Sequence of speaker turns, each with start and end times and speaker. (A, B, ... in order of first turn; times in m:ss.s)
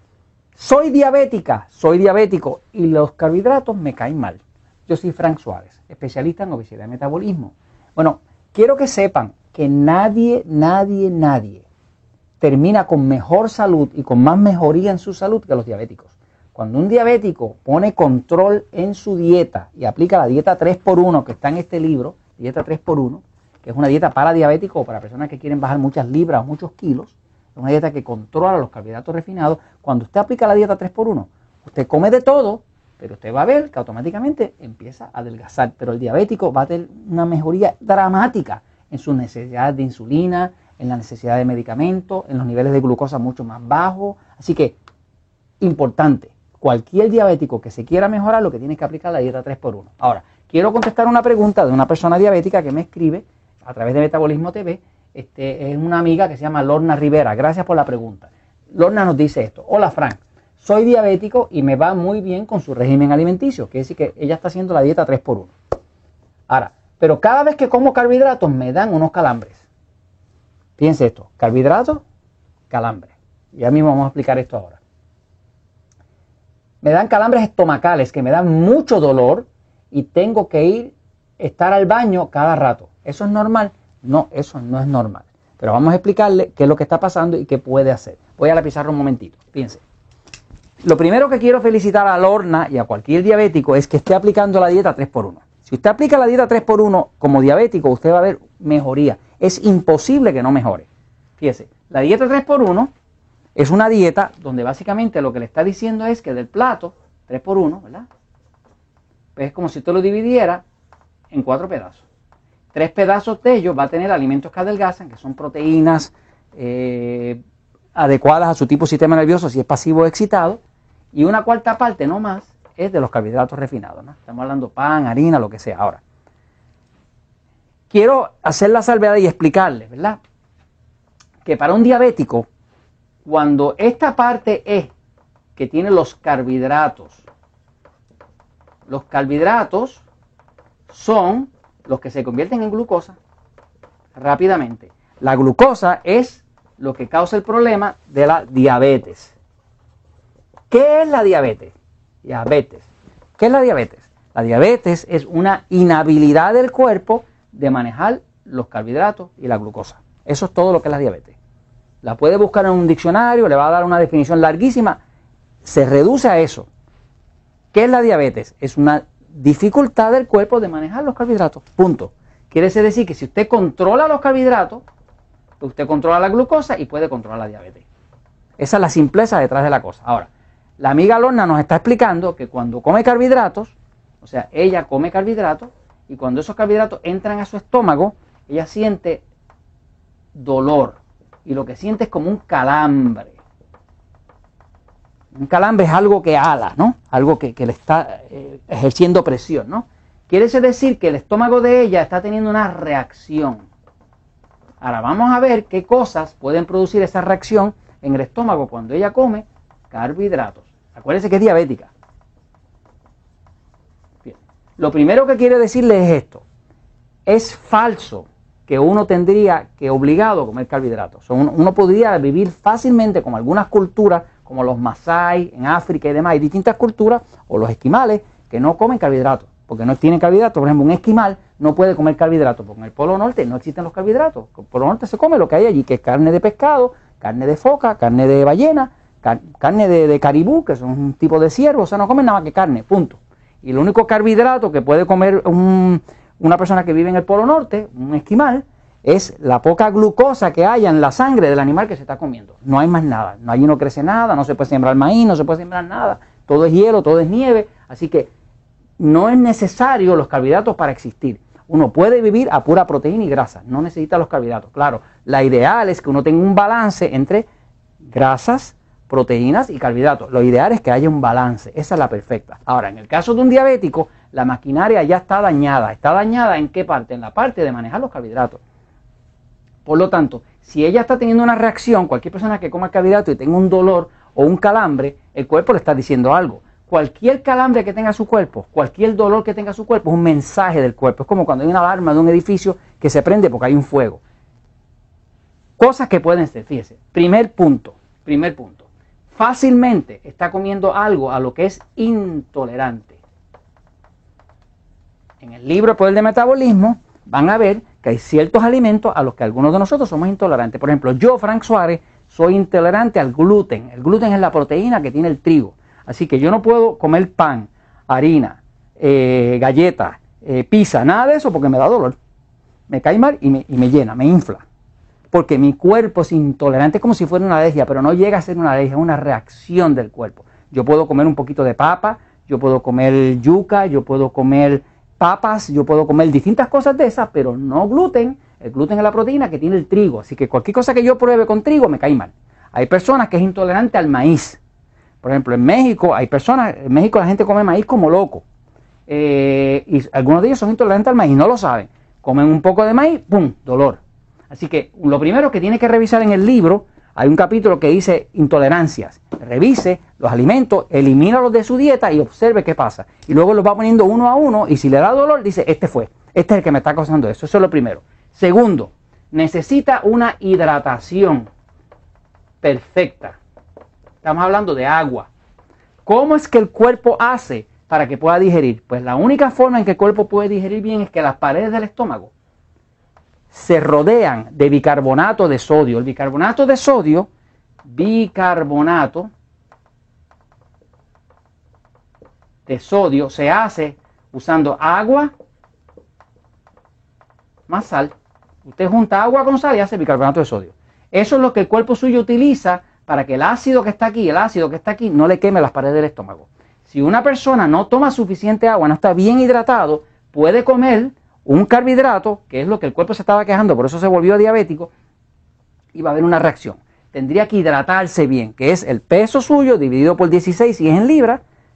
0:00.6-0:11.6 A
0:12.4-0:44.8 A
0:45.6-1:05.5 A
1:06.5-1:09.6 A
1:10.8-1:12.0 A
1:12.7-1:14.8 A
1:16.8-1:29.8 A
1:30.8-1:40.9 A
1:41.4-1:42.9 A
1:43.6-1:48.1 A
1:49.4-1:50.6 A
1:51.3-1:52.0 A
1:52.7-1:57.4 A
1:57.9-2:00.6 A
2:01.1-2:06.0 A
2:07.9-2:10.2 A
2:11.4-2:12.5 A
2:13.2-2:14.9 A
2:15.6-2:17.2 A
2:18.9-2:20.0 A
2:20.9-2:23.2 A
2:24.2-2:29.3 A
2:30.7-2:32.9 A
2:33.4-2:41.4 A
2:42.0-2:45.0 A
2:45.6-2:46.7 A
2:47.7-2:54.8 A
2:55.6-2:57.8 A
2:58.6-3:09.2 A
3:10.3-3:13.4 A
3:15.3-3:23.7 A
3:24.8-3:31.9 A
3:34.2-3:36.4 A
3:37.2-4:18.3 A
4:19.0-4:27.5 A
4:28.0-4:38.6 A
4:39.8-4:54.2 A
4:55.8-5:03.2 A
5:05.4-5:22.2 A
5:22.9-5:24.6 A
5:25.3-5:44.6 A
5:45.2-5:48.4 A
5:49.1-6:11.5 A
6:12.6-6:13.4 A
6:14.2-6:15.3 A
6:16.0-6:22.3 A
6:23.5-6:27.3 A
6:27.8-6:29.3 A
6:32.7-6:35.3 A
6:37.7-6:38.1 A
6:38.6-6:54.9 A
6:55.9-7:01.4 A